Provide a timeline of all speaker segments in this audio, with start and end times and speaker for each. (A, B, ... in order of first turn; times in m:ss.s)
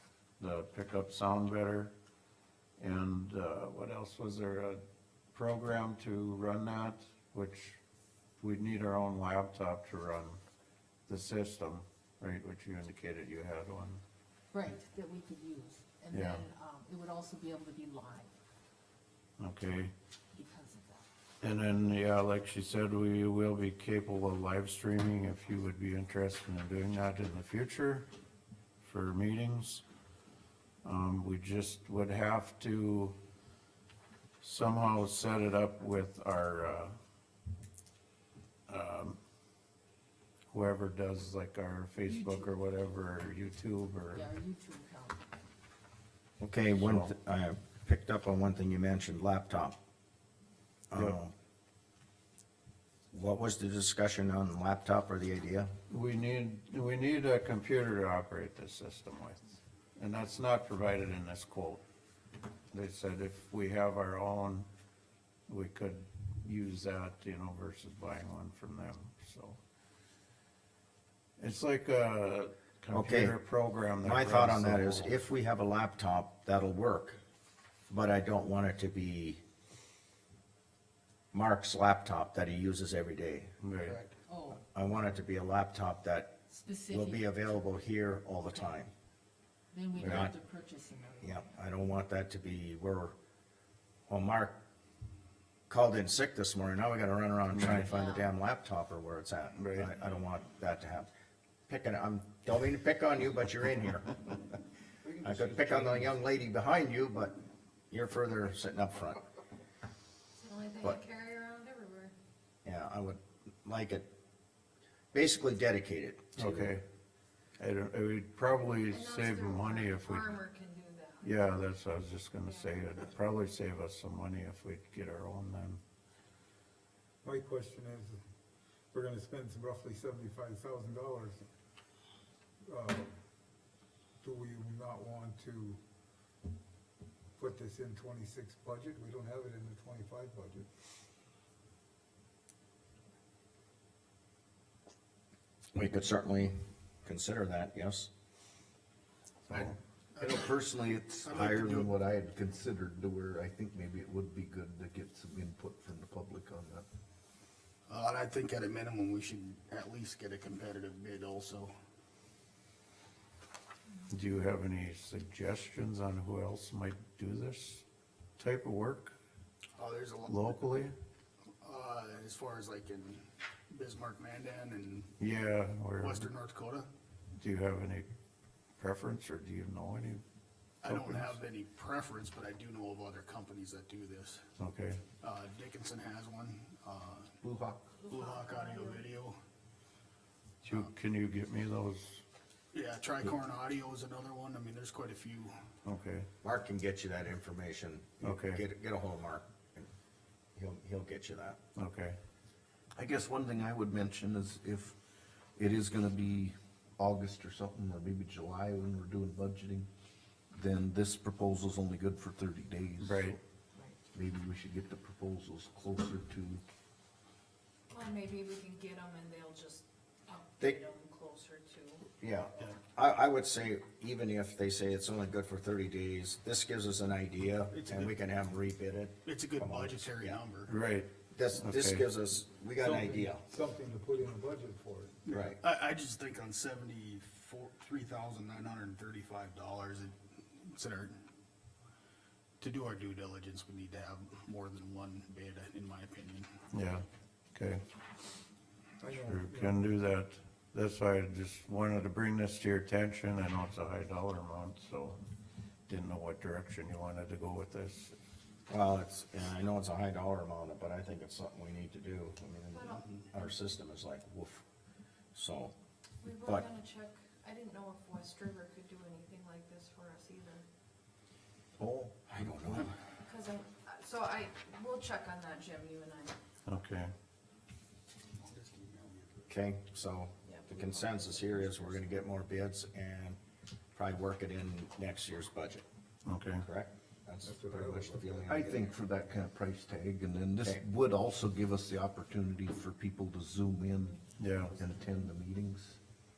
0:00.4-0:01.9 A
0:02.8-0:04.8 A
0:05.3-0:07.8 A
0:08.4-0:10.4 A
0:11.1-0:14.0 A
0:14.5-0:18.3 B
0:16.1-0:16.5 A
0:19.4-0:19.9 A
0:20.3-0:21.0 B
0:21.4-0:28.1 A
0:28.8-0:29.8 A
0:30.8-0:33.1 A
0:34.4-0:37.0 A
0:38.7-0:39.2 A
0:40.5-0:44.3 A
0:42.1-0:42.5 B
0:44.1-0:45.2 B
0:46.4-0:49.8 C
0:46.7-0:47.1 A
0:50.9-0:51.3 C
0:53.1-0:55.7 C
0:55.9-1:01.8 A
1:02.7-1:04.7 A
1:05.5-1:09.6 A
1:11.4-1:15.2 A
1:12.9-1:13.4 C
1:14.0-1:17.2 C
1:17.9-1:19.4 C
1:21.3-1:23.5 C
1:23.6-1:24.0 A
1:24.2-1:24.6 B
1:24.7-1:26.4 C
1:26.5-1:27.3 B
1:26.9-1:28.9 C
1:29.7-1:31.5 B
1:30.0-1:30.3 C
1:30.0-1:30.3 A
1:31.2-1:33.2 C
1:34.1-1:34.6 C
1:35.7-1:41.1 C
1:37.5-1:37.9 A
1:37.7-1:38.3 B
1:39.6-1:39.9 A
1:41.7-1:44.6 C
1:45.0-1:46.1 D
1:45.2-1:49.2 C
1:50.4-1:52.1 E
1:52.6-1:54.1 C
1:55.1-1:56.7 C
1:56.4-1:56.8 A
1:57.6-2:00.4 A
1:58.8-2:01.3 E
2:01.2-2:05.8 A
2:02.4-2:02.7 E
2:07.2-2:08.2 F
2:08.9-2:11.4 F
2:12.6-2:13.1 F
2:14.2-2:15.8 F
2:17.4-2:20.6 F
2:25.7-2:28.1 C
2:29.5-2:36.8 D
2:30.2-2:30.6 G
2:31.2-2:31.9 G
2:37.9-2:41.7 G
2:44.1-2:47.8 A
2:48.4-2:49.1 A
2:49.8-2:50.6 G
2:50.3-2:50.9 A
2:51.6-2:55.1 G
2:55.2-2:56.3 A
2:56.0-2:56.9 G
2:57.4-2:58.1 A
2:58.8-3:00.2 A
3:00.8-3:04.4 G
3:00.8-3:01.4 A
3:04.6-3:05.0 A
3:05.2-3:07.3 G
3:07.4-3:08.0 D
3:08.0-3:09.0 E
3:08.1-3:09.4 G
3:10.6-3:12.2 A
3:12.7-3:15.5 G
3:15.8-3:16.3 A
3:16.4-3:19.9 C
3:18.2-3:18.6 A
3:20.6-3:21.6 C
3:21.7-3:22.2 A
3:22.9-3:25.0 D
3:25.6-3:29.9 D
3:30.5-3:33.4 D
3:33.0-3:33.4 A
3:34.1-3:36.6 D
3:37.9-3:42.1 E
3:42.2-3:50.4 C
3:47.7-3:48.2 G
3:49.2-3:50.7 G
3:50.7-3:52.0 A
3:51.3-3:53.4 C
3:52.8-3:55.2 F
3:55.2-4:01.2 G
3:55.3-3:55.6 C
4:02.6-4:06.5 G
4:06.7-4:07.8 A
4:09.0-4:09.8 F
4:09.1-4:15.2 A
4:15.9-4:18.2 A
4:18.7-4:24.6 C
4:22.7-4:23.1 E
4:25.3-4:25.7 C
4:26.2-4:30.6 E
4:31.8-4:32.2 D
4:32.3-4:32.9 C
4:33.2-4:36.4 E
4:36.6-4:37.1 A
4:38.4-4:39.4 G
4:39.5-4:43.4 C
4:40.5-4:42.1 E
4:43.9-4:45.8 C
4:46.2-4:46.6 A
4:46.6-4:48.9 C
4:47.4-4:48.5 F
4:48.5-4:56.0 D
4:54.4-4:54.8 A